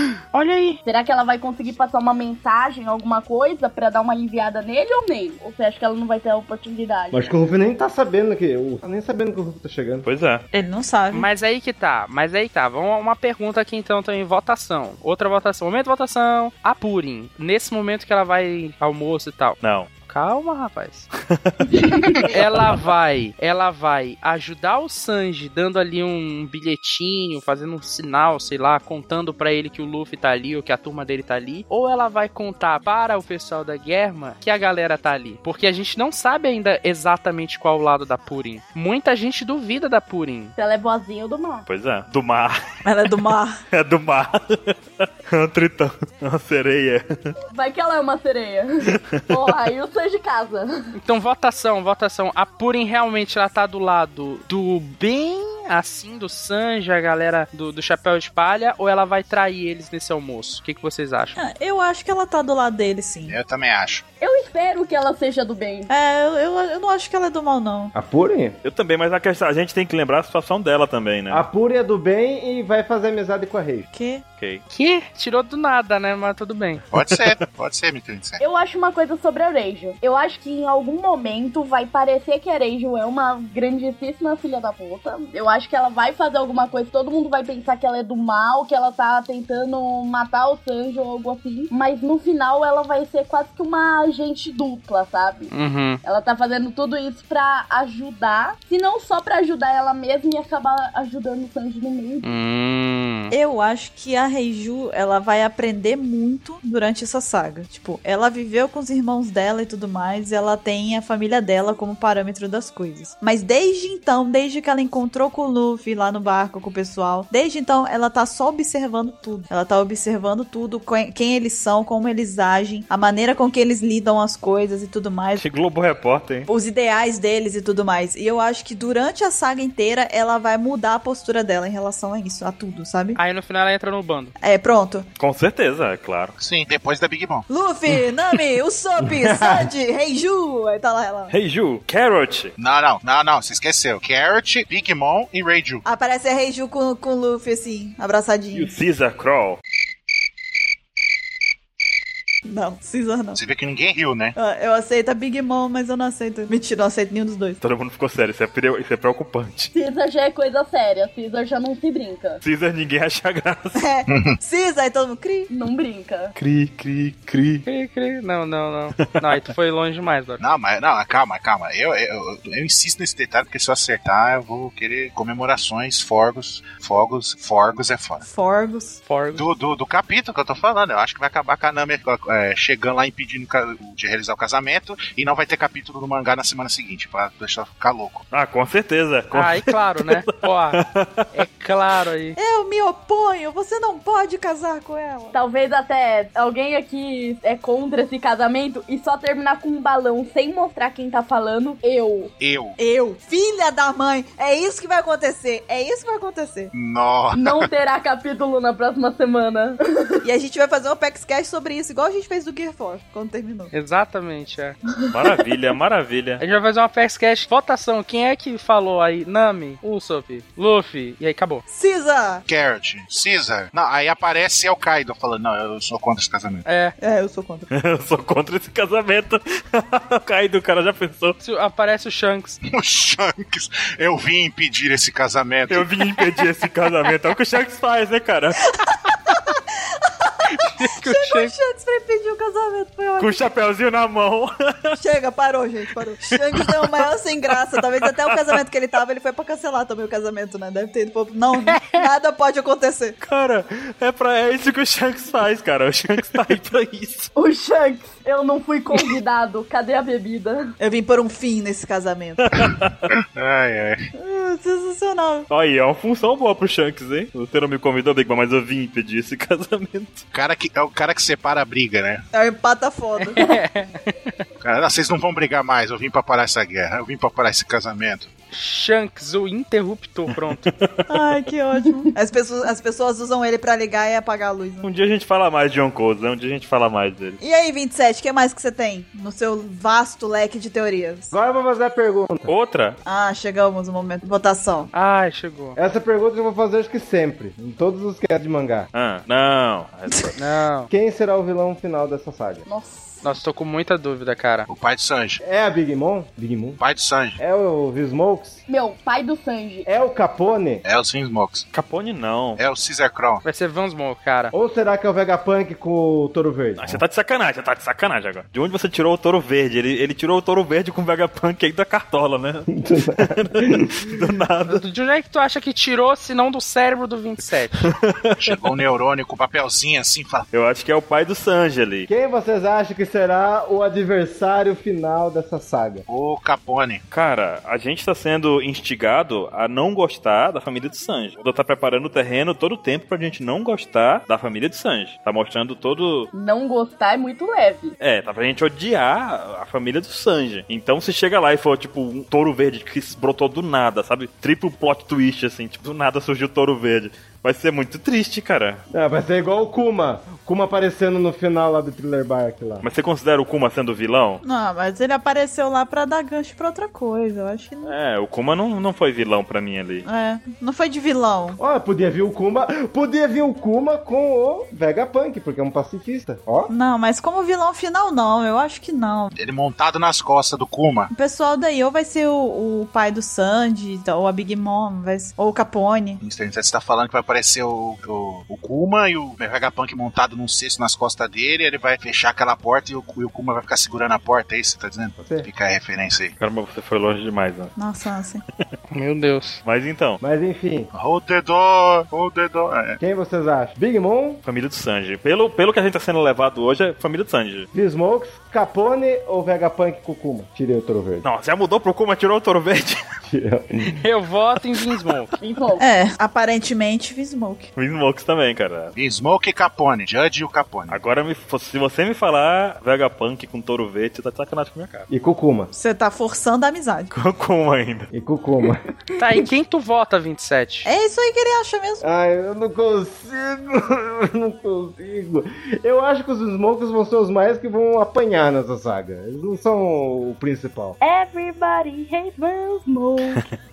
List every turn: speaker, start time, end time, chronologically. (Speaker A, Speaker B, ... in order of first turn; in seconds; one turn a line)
Speaker A: 0.3-0.8
Speaker B: 0.8-7.2
Speaker C: 7.1-10.1
Speaker D: 10.0-10.4
Speaker E: 10.5-11.3
Speaker A: 11.1-21.1
Speaker D: 19.6-19.9
Speaker D: 21.3-22.0
Speaker A: 22.2-40.5
Speaker B: 40.6-41.6
Speaker D: 41.6-42.6
Speaker E: 42.8-43.6
Speaker D: 43.7-47.3
Speaker B: 47.5-51.0
Speaker D: 49.0-49.4
Speaker A: 51.0-61.4
Speaker E: 61.4-63.4
Speaker F: 63.3-64.0
Speaker B: 64.2-65.9
Speaker E: 65.9-67.9
Speaker C: 67.9-68.6
Speaker D: 68.6-71.4
Speaker C: 71.3-73.9
Speaker E: 73.9-74.2
Speaker D: 74.4-74.6
Speaker A: 74.7-76.8
Speaker F: 76.9-78.4
Speaker B: 78.4-95.5
Speaker A: 95.5-96.0
Speaker B: 96.0-102.3
Speaker A: 102.2-103.3
Speaker E: 103.3-125.4
Speaker D: 125.4-126.5
Speaker E: 126.5-133.2
Speaker A: 133.2-134.3
Speaker E: 134.4-135.1
Speaker D: 135.2-136.3
Speaker F: 136.4-137.5
Speaker E: 137.5-141.3
Speaker C: 139.0-139.7
Speaker D: 141.3-142.5
Speaker F: 142.6-145.8
Speaker E: 145.8-148.7
Speaker D: 148.5-149.6
Speaker E: 152.4-153.4
Speaker F: 153.3-154.3
Speaker E: 154.3-157.6
Speaker D: 157.6-159.7
Speaker B: 159.7-162.4
Speaker D: 162.4-163.8
Speaker E: 163.7-165.5
Speaker B: 165.5-166.3
Speaker D: 166.3-167.6
Speaker A: 167.7-170.4
Speaker F: 170.4-178.2
Speaker E: 178.2-179.0
Speaker A: 179.1-179.4
Speaker F: 179.3-188.2
Speaker D: 188.3-191.2
Speaker A: 189.3-192.3
Speaker E: 192.4-195.3
Speaker B: 195.3-202.3
Speaker F: 202.4-202.8
Speaker E: 202.8-206.7
Speaker F: 206.7-207.7
Speaker B: 207.3-210.1
Speaker E: 210.2-213.7
Speaker A: 213.7-214.8
Speaker D: 215.1-216.4
Speaker A: 216.4-221.6
Speaker E: 221.7-222.4
Speaker F: 222.5-226.6
Speaker A: 226.6-226.9
Speaker E: 227.0-227.7
Speaker D: 227.7-231.4
Speaker A: 231.4-232.6
Speaker F: 232.7-235.8
Speaker D: 235.7-238.7
Speaker E: 239.1-239.6
Speaker E: 240.2-240.5
Speaker A: 240.5-241.5
Speaker E: 241.0-243.5
Speaker D: 243.2-245.0
Speaker E: 245.0-253.2
Speaker A: 251.7-252.0
Speaker D: 253.2-257.3
Speaker B: 257.3-260.7
Speaker E: 260.8-262.4
Speaker D: 262.5-262.9
Speaker F: 263.3-264.0
Speaker E: 264.1-265.5
Speaker D: 265.5-270.2
Speaker F: 270.3-272.2
Speaker E: 272.3-273.4
Speaker A: 273.2-274.3
Speaker F: 274.6-278.3
Speaker A: 278.5-280.7
Speaker D: 280.8-281.1
Speaker E: 281.1-284.9
Speaker D: 284.8-287.4
Speaker E: 287.4-291.3
Speaker C: 291.3-292.5
Speaker D: 292.5-293.0
Speaker E: 293.0-294.9
Speaker A: 294.9-295.8
Speaker C: 295.8-298.9
Speaker D: 298.9-300.4
Speaker A: 300.4-300.9
Speaker C: 300.9-302.6
Speaker B: 302.6-303.2
Speaker A: 303.2-304.7
Speaker F: 304.7-305.4
Speaker C: 305.4-306.8
Speaker F: 306.8-307.4
Speaker C: 307.4-308.6
Speaker B: 308.7-309.9
Speaker C: 309.9-310.8
Speaker F: 310.8-311.7
Speaker D: 311.7-312.6
Speaker F: 312.6-313.4
Speaker A: 313.4-314.5
Speaker C: 314.5-317.0
Speaker D: 316.8-324.8
Speaker C: 322.7-323.9
Speaker A: 324.7-327.9
Speaker D: 327.9-328.5
Speaker F: 328.4-330.5
Speaker D: 330.5-332.1
Speaker C: 332.1-336.1
Speaker F: 336.1-337.0
Speaker D: 337.1-346.3
Speaker B: 346.3-347.9
Speaker D: 348.0-358.8
Speaker C: 358.9-362.8
Speaker D: 362.8-364.4
Speaker E: 364.4-367.9
Speaker D: 367.8-370.0
Speaker E: 370.0-371.6
Speaker C: 371.6-376.7
Speaker E: 376.7-379.3
Speaker F: 379.3-381.1
Speaker E: 381.1-386.2
Speaker F: 386.2-396.3
Speaker C: 395.2-395.5
Speaker D: 396.4-397.7
Speaker E: 397.8-398.4
Speaker A: 398.9-399.6
Speaker D: 399.6-400.2
Speaker C: 400.2-400.9
Speaker F: 400.9-403.0
Speaker C: 403.0-404.4
Speaker D: 404.4-407.7
Speaker C: 407.7-411.2
Speaker D: 411.2-413.0
Speaker C: 413.3-413.9
Speaker A: 414.0-415.3
Speaker B: 415.4-415.8
Speaker E: 415.8-417.7
Speaker D: 417.8-418.9
Speaker F: 418.9-421.0
Speaker D: 420.9-425.1
Speaker C: 425.1-425.7
Speaker E: 425.7-427.1
Speaker D: 427.1-428.1
Speaker C: 428.1-428.8
Speaker A: 429.2-430.9
Speaker E: 430.8-432.0
Speaker C: 432.0-441.0
Speaker B: 441.0-443.4